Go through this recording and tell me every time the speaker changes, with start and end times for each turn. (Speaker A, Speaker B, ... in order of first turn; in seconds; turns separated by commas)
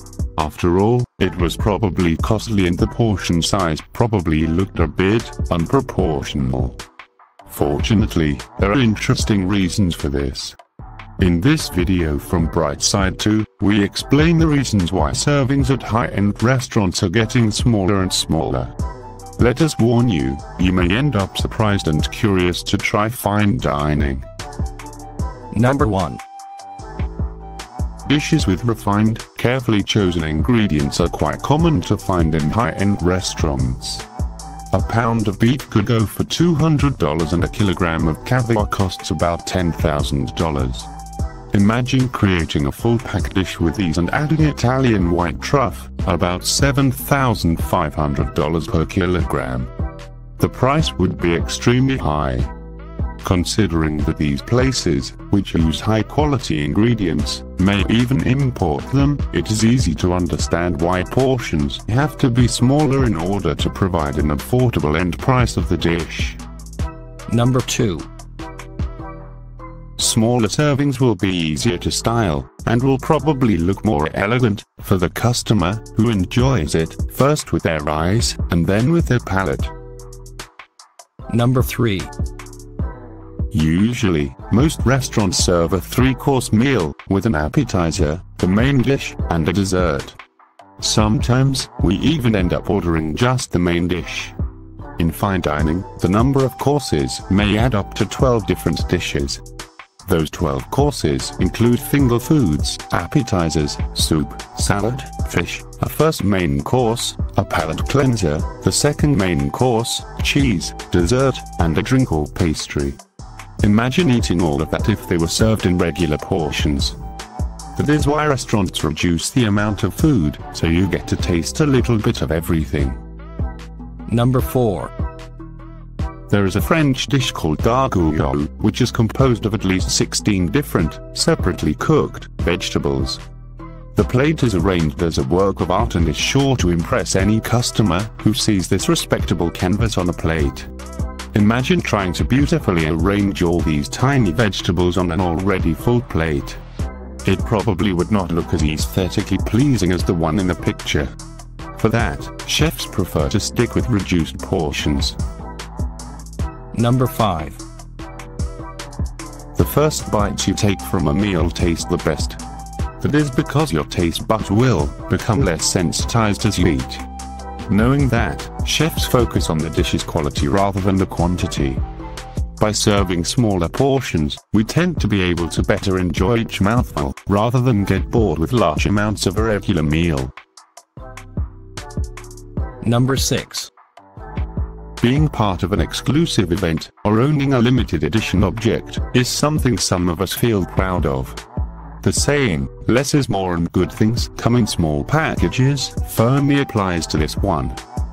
Speaker A: 0.4-6.8, Speaker A: 7.5-10.6, Speaker A: 11.2-18.7, Speaker A: 19.4-24.3, Speaker B: 25.5-26.2, Speaker A: 28.0-34.1, Speaker A: 34.7-40.9, Speaker A: 41.5-49.7, Speaker A: 50.4-52.5, Speaker A: 53.2-66.4, Speaker B: 67.3-68.1, Speaker A: 70.0-79.7, Speaker B: 81.3-82.1, Speaker A: 83.5-90.2, Speaker A: 90.8-94.4, Speaker A: 95.0-99.4, Speaker A: 100.0-113.0, Speaker A: 113.6-117.0, Speaker A: 117.8-123.0, Speaker B: 124.1-124.9, Speaker A: 126.3-133.2, Speaker A: 133.9-140.7, Speaker A: 141.3-146.6, Speaker A: 147.2-151.1, Speaker A: 151.8-155.2, Speaker B: 156.7-157.6, Speaker A: 159.6-162.4, Speaker A: 163.0-167.1, Speaker A: 167.7-171.8, Speaker A: 172.6-180.3, Speaker B: 182.8-183.7, Speaker A: 185.0-191.4, Speaker A: 192.0-197.8